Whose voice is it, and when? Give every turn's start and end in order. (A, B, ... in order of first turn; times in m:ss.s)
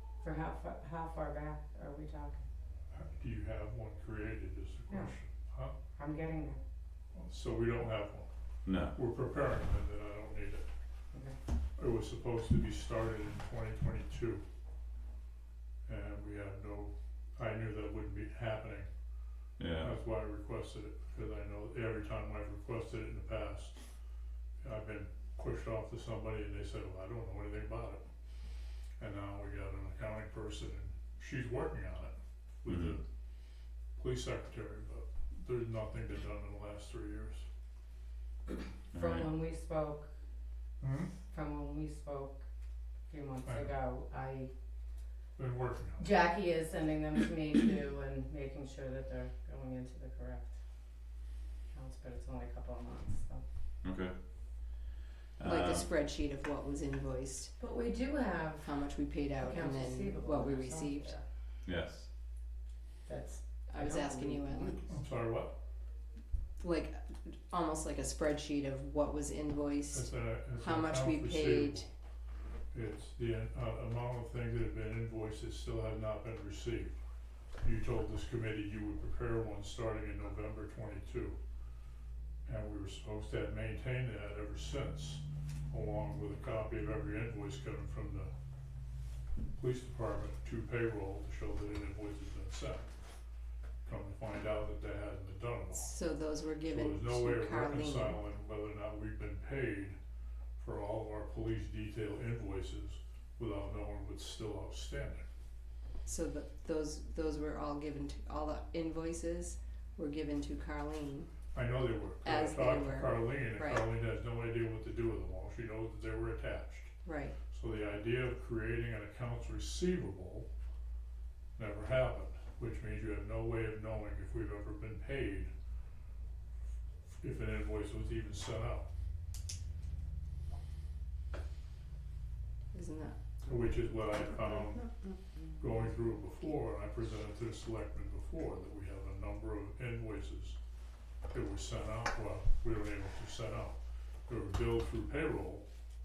0:00.2-0:02.5 A
0:02.9-0:05.7 B
0:06.0-0:06.6 A
0:07.2-0:08.3 B
0:08.7-0:09.0 C
0:08.9-0:10.7 B
0:11.8-0:14.4 B
0:15.9-0:18.9 B
0:19.6-0:19.9 C
0:19.8-0:23.8 B
0:24.6-0:28.0 B
0:29.0-0:33.0 B
0:32.7-0:33.0 C
0:34.0-0:37.5 B
0:38.9-0:40.1 A
0:38.9-0:39.4 C
0:40.8-0:41.2 B
0:41.3-0:42.4 A
0:43.1-0:44.5 A
0:43.4-0:43.8 B
0:45.4-0:46.1 B
0:46.0-0:50.6 A
0:51.7-0:53.4 A
0:53.8-0:54.2 C
0:55.4-0:55.9 C
0:55.4-0:57.6 D
0:57.6-1:01.2 A
0:58.6-1:01.2 D
1:01.6-1:02.1 C
1:03.1-1:05.0 A
1:03.7-1:04.8 D
1:04.9-1:05.6 B
1:06.6-1:11.9 D
1:09.9-1:11.9 B
1:12.7-1:17.0 B
1:17.6-1:21.4 B
1:22.4-1:28.3 B
1:29.6-1:32.9 B
1:33.8-1:35.9 B
1:35.7-1:38.2 D
1:36.7-1:40.0 B
1:40.6-1:45.3 B
1:46.1-1:51.3 D
1:51.5-1:56.9 B
1:52.2-1:53.9 D
1:57.0-1:57.4 D
1:57.5-2:00.5 B
2:01.6-2:05.5 B
2:07.1-2:08.9 B
2:12.7-2:13.2 D
2:13.4-2:14.9 B
2:14.1-2:15.2 D
2:15.6-2:20.6 B
2:21.3-2:25.7 B